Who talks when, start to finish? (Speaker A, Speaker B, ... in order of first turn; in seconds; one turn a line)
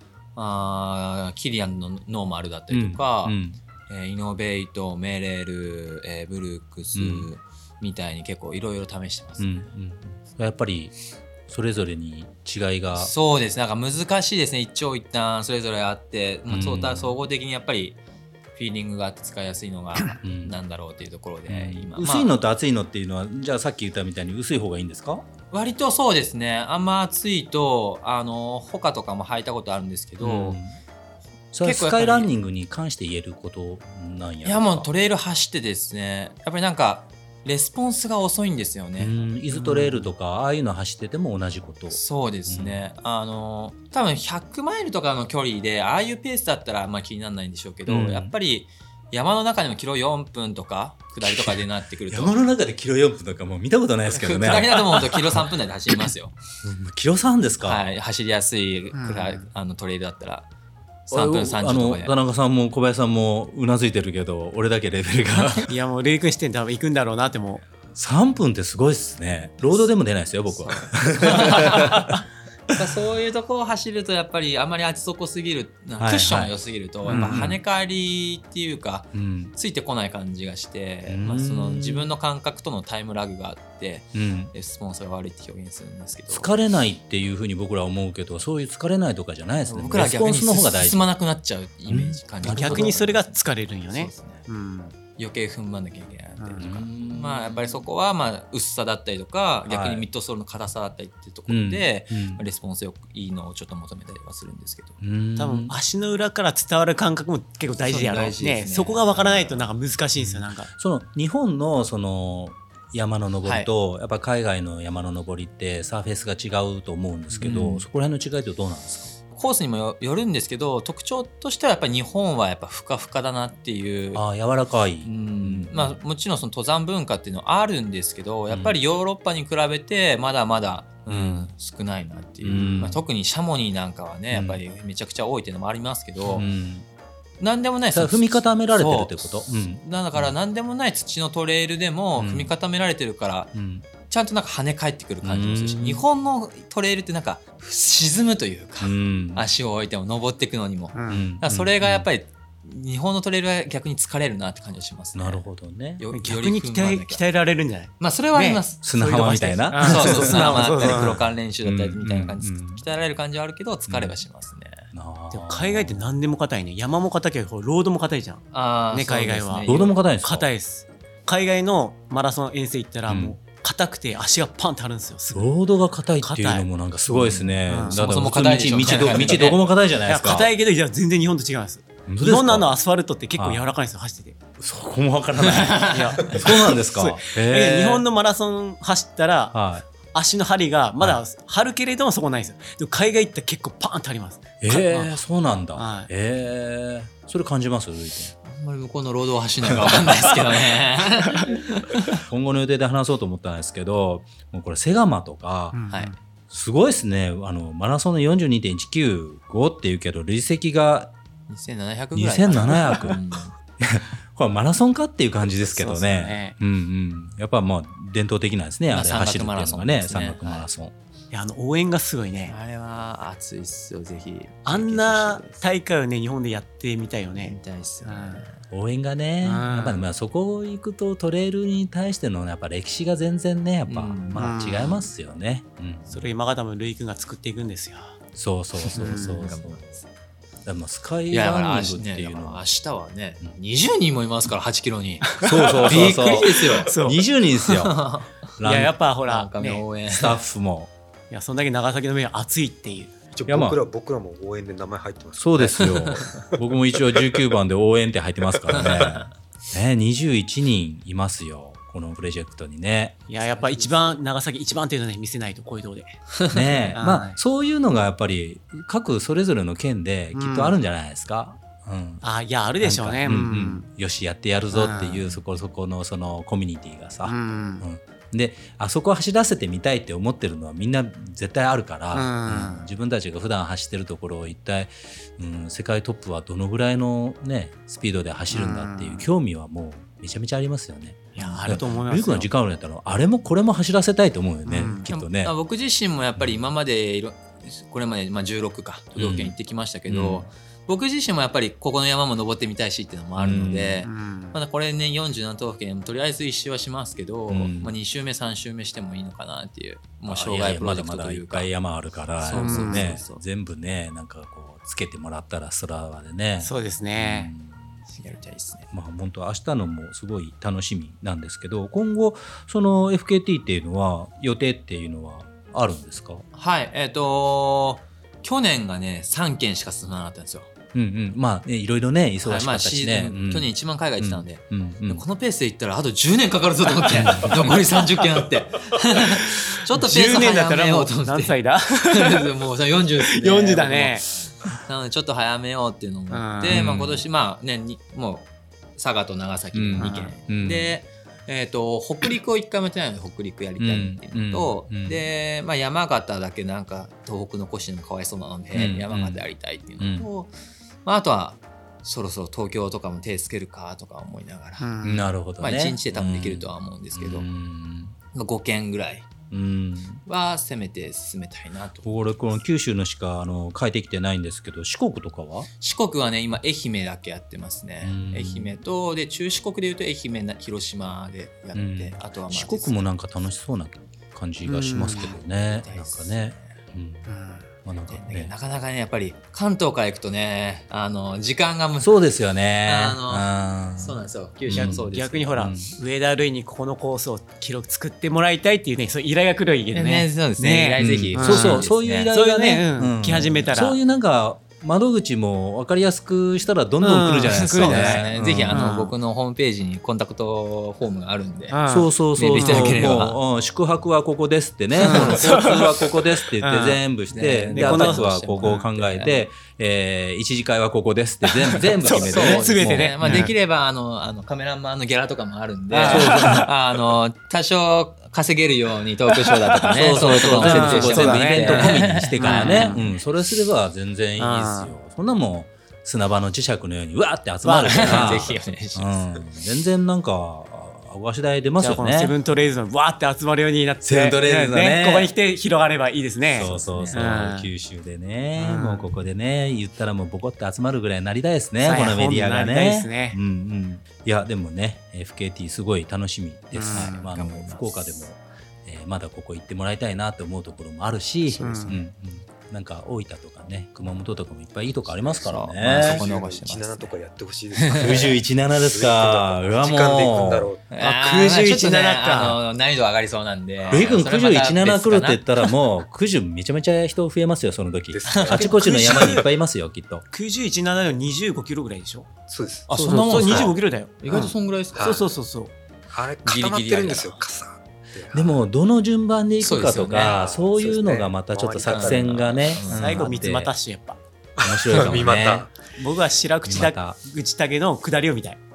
Speaker A: 0.3-9.7
Speaker B: 2.7-3.6
Speaker B: 6.9-7.3
Speaker B: 9.4-10.9
Speaker B: 11.5-13.1
Speaker A: 12.9-18.0
Speaker B: 16.5-17.1
Speaker A: 18.6-22.3
Speaker B: 20.2-20.6
Speaker B: 21.5-25.2
Speaker A: 25.5-30.6
Speaker B: 30.2-30.8
Speaker B: 31.5-34.9
Speaker A: 31.6-32.3
Speaker A: 34.4-40.1
Speaker B: 39.0-42.8
Speaker A: 41.9-52.4
Speaker B: 47.9-48.3
Speaker B: 51.2-51.6
Speaker B: 52.1-55.5
Speaker A: 54.1-56.4
Speaker B: 56.6-57.8
Speaker A: 57.6-60.5
Speaker C: 58.9-59.5
Speaker B: 61.1-65.7
Speaker A: 61.1-62.1
Speaker C: 65.7-67.7
Speaker B: 67.9-72.2
Speaker A: 70.7-72.1
Speaker A: 72.7-86.5
Speaker B: 76.0-77.6
Speaker B: 79.1-79.5
Speaker B: 81.1-82.1
Speaker B: 84.1-84.5
Speaker B: 86.3-91.0
Speaker A: 89.7-94.5
Speaker B: 91.9-93.0
Speaker C: 92.4-95.0
Speaker A: 95.2-105.0
Speaker B: 96.6-97.6
Speaker B: 99.7-100.1
Speaker B: 101.5-102.4
Speaker B: 105.0-105.7
Speaker C: 105.4-110.7
Speaker A: 107.9-109.7
Speaker B: 110.8-119.1
Speaker A: 113.4-113.7
Speaker A: 117.3-117.8
Speaker A: 119.3-124.2
Speaker B: 124.1-126.0
Speaker A: 125.0-136.4
Speaker B: 131.1-131.5
Speaker B: 132.4-133.0
Speaker B: 134.3-134.6
Speaker B: 136.3-136.8
Speaker A: 137.4-155.4
Speaker B: 137.9-140.3
Speaker B: 142.2-142.5
Speaker B: 143.5-143.8
Speaker B: 145.2-146.0
Speaker B: 148.8-149.4
Speaker C: 150.9-151.2
Speaker B: 151.1-152.1
Speaker B: 155.1-156.0
Speaker A: 156.0-157.2
Speaker C: 156.1-161.2
Speaker A: 158.0-158.8
Speaker B: 158.8-162.8
Speaker A: 159.7-164.9
Speaker B: 163.9-164.2
Speaker B: 164.9-166.1
Speaker C: 165.3-175.6
Speaker A: 168.5-169.9
Speaker B: 169.6-170.5
Speaker B: 173.1-173.3
Speaker B: 175.3-180.5
Speaker C: 176.2-178.0
Speaker A: 177.8-179.6
Speaker C: 179.0-179.4
Speaker C: 180.1-184.4
Speaker B: 182.1-182.8
Speaker B: 183.4-183.6
Speaker B: 184.6-188.0
Speaker A: 185.4-186.3
Speaker C: 185.9-189.6
Speaker B: 189.5-189.8
Speaker C: 190.1-195.2
Speaker B: 194.6-198.3
Speaker C: 195.8-196.1
Speaker A: 198.4-202.2
Speaker B: 199.7-200.0
Speaker B: 202.3-205.8
Speaker C: 205.7-206.1
Speaker B: 206.5-211.1
Speaker A: 211.5-213.5
Speaker B: 212.1-213.2
Speaker B: 213.8-220.9
Speaker C: 215.6-216.6
Speaker A: 218.9-220.7
Speaker C: 221.3-222.5
Speaker A: 222.5-225.6
Speaker C: 224.7-228.4
Speaker A: 227.4-228.6
Speaker B: 228.7-236.2
Speaker C: 229.4-230.0
Speaker A: 233.9-234.6
Speaker C: 234.4-235.0
Speaker C: 236.1-238.2
Speaker B: 238.3-240.0
Speaker A: 238.8-240.0
Speaker C: 238.9-239.6
Speaker B: 240.6-242.7
Speaker A: 241.3-246.9
Speaker C: 245.3-246.1
Speaker B: 245.4-248.0
Speaker C: 246.8-247.8
Speaker A: 247.9-248.3
Speaker B: 248.6-248.9
Speaker C: 248.6-249.8
Speaker A: 249.2-250.4
Speaker B: 250.1-250.9
Speaker C: 251.3-253.1
Speaker D: 253.3-256.3
Speaker B: 253.5-253.8
Speaker B: 255.4-263.3
Speaker A: 255.6-256.3
Speaker D: 257.1-257.4
Speaker D: 258.5-258.9
Speaker A: 258.8-259.2
Speaker C: 263.3-266.2
Speaker B: 266.5-272.2
Speaker C: 266.9-267.4
Speaker C: 270.3-270.8
Speaker C: 272.2-273.9
Speaker B: 272.8-295.5
Speaker C: 274.7-275.4
Speaker C: 277.2-277.8
Speaker C: 282.1-282.9
Speaker C: 288.5-289.3
Speaker C: 291.3-292.5
Speaker C: 294.6-295.0
Speaker A: 295.1-311.7
Speaker B: 299.1-299.5
Speaker B: 300.1-300.5
Speaker B: 303.4-304.1
Speaker C: 304.0-304.6
Speaker B: 307.5-307.9
Speaker B: 310.3-318.0
Speaker A: 312.4-313.4
Speaker C: 312.5-313.2
Speaker C: 316.6-317.5
Speaker A: 318.1-318.9
Speaker B: 318.9-326.4
Speaker A: 326.5-330.7
Speaker B: 330.9-335.2
Speaker A: 332.4-360.5
Speaker C: 340.0-342.5
Speaker C: 343.2-344.3
Speaker C: 346.3-346.8
Speaker B: 346.7-347.2
Speaker B: 349.7-350.9
Speaker C: 350.0-350.3
Speaker B: 353.8-355.2
Speaker B: 358.7-359.4
Speaker B: 360.0-360.3
Speaker A: 361.0-364.9
Speaker C: 364.8-365.3
Speaker B: 365.0-368.1
Speaker A: 365.6-367.5
Speaker A: 368.3-369.3
Speaker B: 369.5-370.2
Speaker A: 370.2-372.1
Speaker B: 372.0-375.7
Speaker A: 375.8-383.0
Speaker B: 378.0-378.8
Speaker B: 381.7-387.3
Speaker C: 384.6-385.3
Speaker A: 385.2-386.8
Speaker C: 387.3-387.7
Speaker B: 387.8-388.5
Speaker A: 388.1-392.1
Speaker B: 392.0-395.9
Speaker A: 392.8-395.7
Speaker C: 394.7-404.0
Speaker A: 399.9-402.3
Speaker B: 401.0-408.9
Speaker C: 407.0-409.1
Speaker A: 407.5-411.8
Speaker C: 411.7-413.1
Speaker B: 411.9-423.5
Speaker A: 412.4-413.4
Speaker C: 415.0-417.0
Speaker A: 415.1-415.5
Speaker A: 417.3-419.4
Speaker C: 417.7-418.9
Speaker C: 421.4-423.5
Speaker A: 422.1-433.0
Speaker C: 425.9-426.7
Speaker B: 426.0-426.7
Speaker B: 429.8-442.4
Speaker C: 430.2-433.1
Speaker C: 434.4-434.9
Speaker C: 437.6-438.5
Speaker A: 437.8-439.5
Speaker C: 441.8-447.7
Speaker B: 444.0-445.3
Speaker B: 446.6-466.2
Speaker A: 446.6-447.3
Speaker C: 448.6-449.1
Speaker C: 451.8-453.4
Speaker C: 456.7-457.3
Speaker A: 456.8-458.2
Speaker A: 461.5-462.0
Speaker C: 461.6-462.0
Speaker A: 465.4-467.2
Speaker D: 465.8-470.8
Speaker A: 467.8-468.2
Speaker B: 467.9-470.7
Speaker A: 470.9-475.6
Speaker C: 470.9-472.6
Speaker B: 473.9-480.2
Speaker D: 478.1-478.8
Speaker A: 478.3-478.8
Speaker C: 478.5-479.5
Speaker C: 480.3-482.3
Speaker D: 482.5-483.7
Speaker A: 482.9-485.2
Speaker C: 482.9-485.7
Speaker D: 484.9-485.2
Speaker D: 486.1-488.6
Speaker A: 486.4-487.4
Speaker B: 488.3-493.7
Speaker A: 489.6-490.4
Speaker D: 490.2-492.9
Speaker A: 491.9-493.2
Speaker C: 492.9-494.2
Speaker D: 494.6-495.7
Speaker B: 494.6-495.7
Speaker C: 494.9-495.3
Speaker C: 495.9-498.6
Speaker B: 496.6-497.2